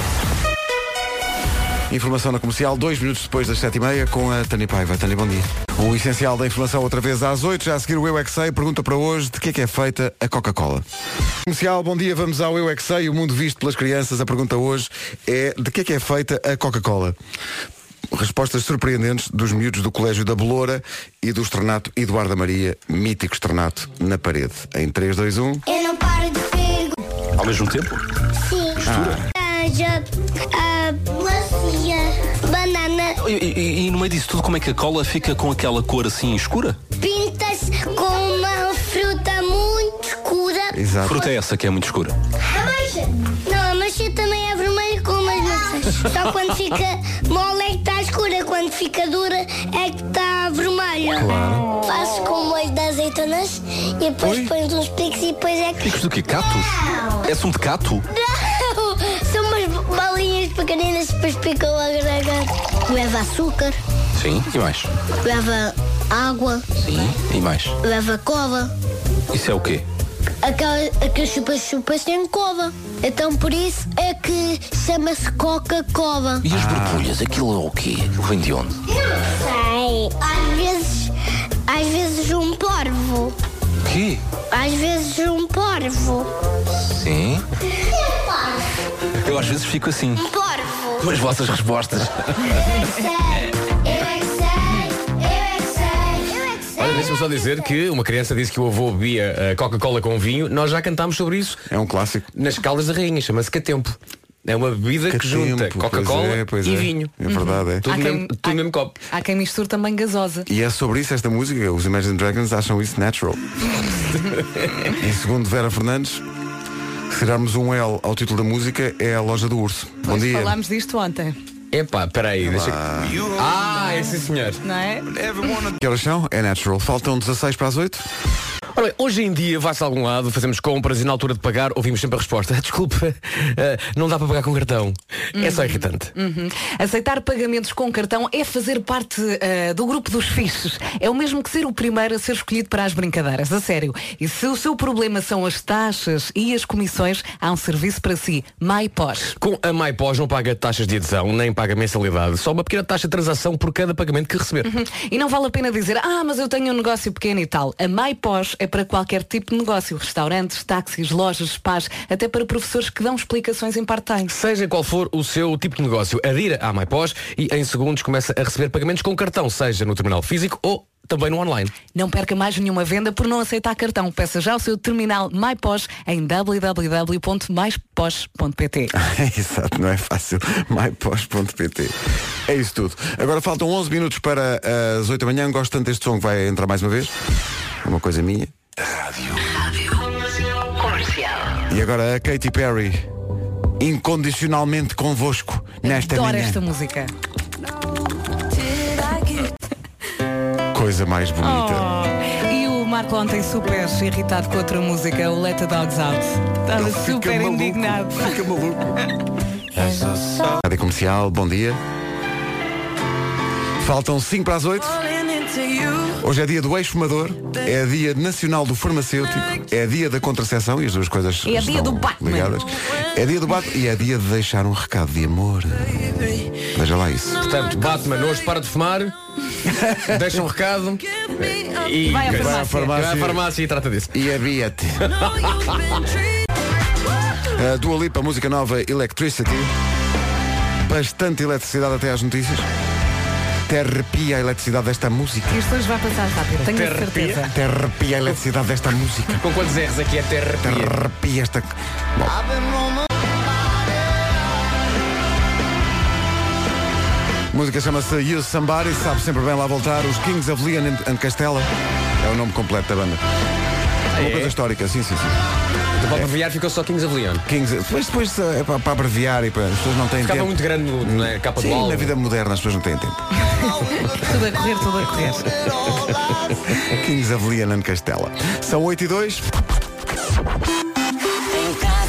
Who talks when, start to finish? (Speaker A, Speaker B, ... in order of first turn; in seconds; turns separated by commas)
Speaker A: 1.9-10.8, Speaker A: 11.4-17.2, Speaker A: 18.1-25.6, Speaker B: 25.7-26.9, Speaker C: 27.4-28.1, Speaker B: 28.4-33.2, Speaker C: 28.8-29.2, Speaker A: 28.8-29.3, Speaker C: 33.2-36.8, Speaker B: 37.0-40.8, Speaker A: 40.7-41.3, Speaker C: 41.0-42.1, Speaker B: 42.4-57.2, Speaker A: 51.2-51.6, Speaker C: 54.2-54.5, Speaker C: 55.8-58.0, Speaker B: 58.1-63.8, Speaker C: 64.2-64.9, Speaker B: 65.2-66.6, Speaker C: 66.8-67.8, Speaker B: 67.8-68.7, Speaker C: 69.3-69.9, Speaker B: 70.4-76.4, Speaker C: 76.4-78.8, Speaker A: 76.5-77.2, Speaker B: 78.9-81.1, Speaker B: 81.7-83.3, Speaker C: 83.8-84.2, Speaker B: 84.5-86.3, Speaker C: 86.9-87.5, Speaker B: 87.8-88.7, Speaker C: 89.2-90.2, Speaker B: 90.2-91.1, Speaker C: 91.0-92.5, Speaker B: 92.8-97.8, Speaker D: 96.8-101.6, Speaker A: 101.7-102.3, Speaker D: 102.4-107.1, Speaker A: 105.1-107.9, Speaker E: 107.3-110.5, Speaker D: 107.8-109.0, Speaker A: 110.5-113.5, Speaker D: 114.4-114.8, Speaker A: 114.9-116.2, Speaker A: 117.1-120.6, Speaker E: 120.0-121.4, Speaker D: 121.7-124.6, Speaker A: 122.4-123.2, Speaker E: 124.6-125.5, Speaker A: 125.8-128.1, Speaker D: 128.8-136.1, Speaker E: 135.3-149.4, Speaker D: 149.4-154.7, Speaker E: 154.6-164.3, Speaker D: 164.3-171.7, Speaker E: 171.9-178.9, Speaker A: 178.9-182.0, Speaker A: 182.5-187.1, Speaker A: 187.8-188.5, Speaker A: 191.7-193.1, Speaker A: 193.8-196.6, Speaker E: 195.8-197.1, Speaker E: 198.9-199.4, Speaker A: 200.7-201.9, Speaker E: 201.4-208.3, Speaker A: 206.7-209.0, Speaker A: 209.9-211.8, Speaker A: 213.8-215.0, Speaker A: 216.1-226.1, Speaker E: 221.5-222.6, Speaker A: 226.7-227.4, Speaker D: 227.4-229.1, Speaker A: 229.7-230.2, Speaker D: 229.9-234.2, Speaker E: 232.0-233.0, Speaker A: 232.2-233.4, Speaker A: 234.1-235.2, Speaker D: 235.1-236.0, Speaker A: 237.5-239.7, Speaker A: 240.8-242.7, Speaker A: 243.7-245.6, Speaker E: 245.5-247.5, Speaker D: 246.7-247.4, Speaker A: 247.5-249.4, Speaker D: 249.3-251.0, Speaker A: 250.6-252.4, Speaker A: 257.5-263.2, Speaker D: 264.1-264.6, Speaker A: 264.1-265.4, Speaker D: 266.0-267.4, Speaker A: 267.5-273.4, Speaker D: 270.2-272.1, Speaker E: 274.0-275.7, Speaker A: 276.8-279.5